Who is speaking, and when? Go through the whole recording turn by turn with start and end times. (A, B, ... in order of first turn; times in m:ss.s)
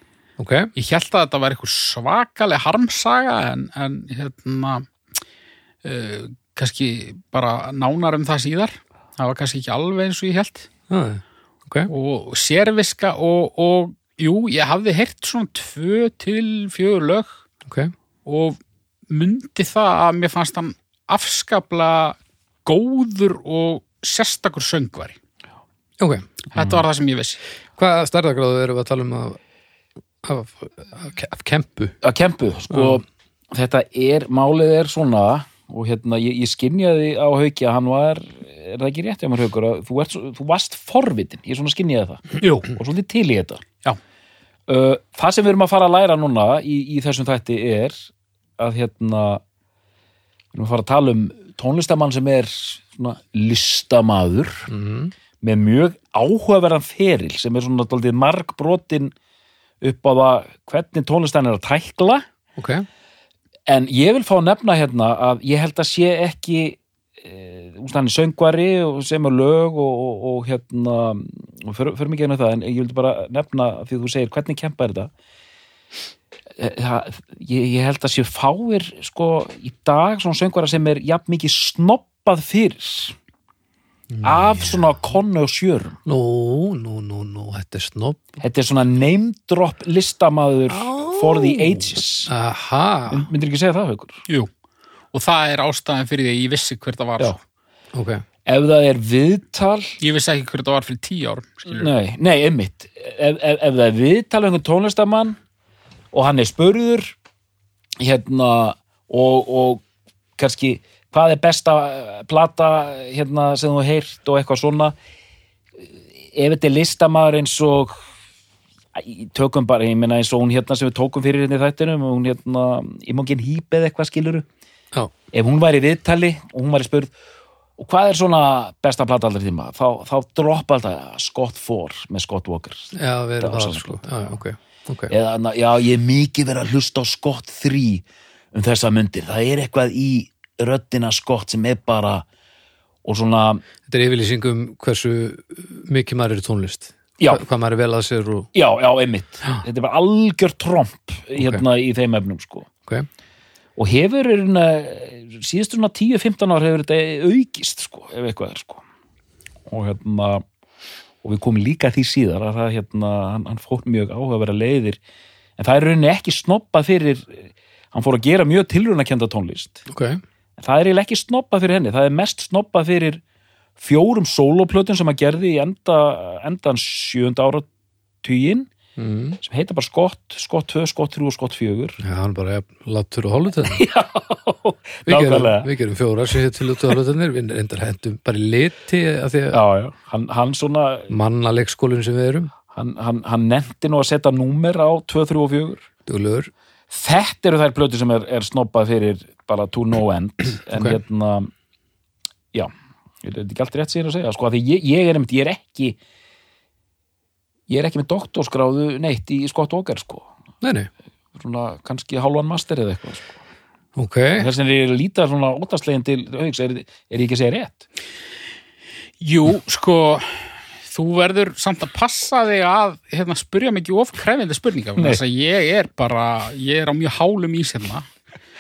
0:00.4-0:00.7 A
0:00.8-0:04.9 B
0:05.8-0:10.7 B
0:10.9-0:11.9 A
0:11.9-0:17.4 B
0:17.7-0:17.9 A
0:18.3-0:18.6 B
0:19.1-0:25.2 B
0:26.0-0:26.3 A
0:26.5-0:27.4 B
0:26.6-0:26.8 C
0:27.8-0:29.4 A
0:30.2-0:32.0 A
0:32.0-0:43.7 C
0:32.7-0:33.0 A
0:44.7-0:48.1 C
0:48.6-0:49.4 C
0:50.5-0:54.7 C
0:54.7-0:55.1 A
0:55.4-0:59.1 C
0:59.8-1:02.2 C
1:02.6-1:02.9 A
1:03.7-1:15.1 C
1:16.6-1:23.2 C
1:24.1-1:24.8 A
1:24.2-1:26.0 C
1:26.0-1:28.2 A
1:28.4-1:32.3 C
1:30.7-1:33.3 A
1:33.1-1:34.2 C
1:35.1-1:37.4 B
1:37.9-1:38.2 A
1:38.5-1:40.0 C
1:40.0-1:41.9 B
1:41.7-1:45.4 C
1:46.1-1:47.1 C
1:48.0-1:49.8 C
1:50.4-1:55.0 C
1:56.3-1:58.1 C
1:59.0-2:04.5 C
2:05.3-2:07.1 C
2:07.8-2:14.1 C
2:12.9-2:15.1 A
2:15.1-2:22.2 C
2:23.0-2:23.6 C
2:23.9-2:28.5 A
2:28.5-2:32.7 C
2:31.4-2:31.6 A
2:33.8-2:38.8 C
2:39.7-2:40.4 C
2:41.2-2:45.0 C
2:45.6-2:49.9 C
2:49.9-2:50.2 A
2:50.6-2:53.2 C
2:53.8-2:57.7 C
2:58.2-2:58.7 C
2:59.0-2:59.4 A
2:59.4-3:02.0 C
3:02.0-3:03.8 A
3:03.7-3:05.7 C
3:05.1-3:09.6 A
3:09.5-3:11.1 C
3:11.1-3:12.5 A
3:12.7-3:15.9 C
3:16.1-3:16.5 A
3:16.9-3:21.5 C
3:23.2-3:26.0 C
3:27.7-3:30.3 C
3:30.6-3:30.9 A
3:31.4-3:33.4 C
3:34.0-3:34.5 A
3:34.4-3:37.8 C
3:39.2-3:48.1 B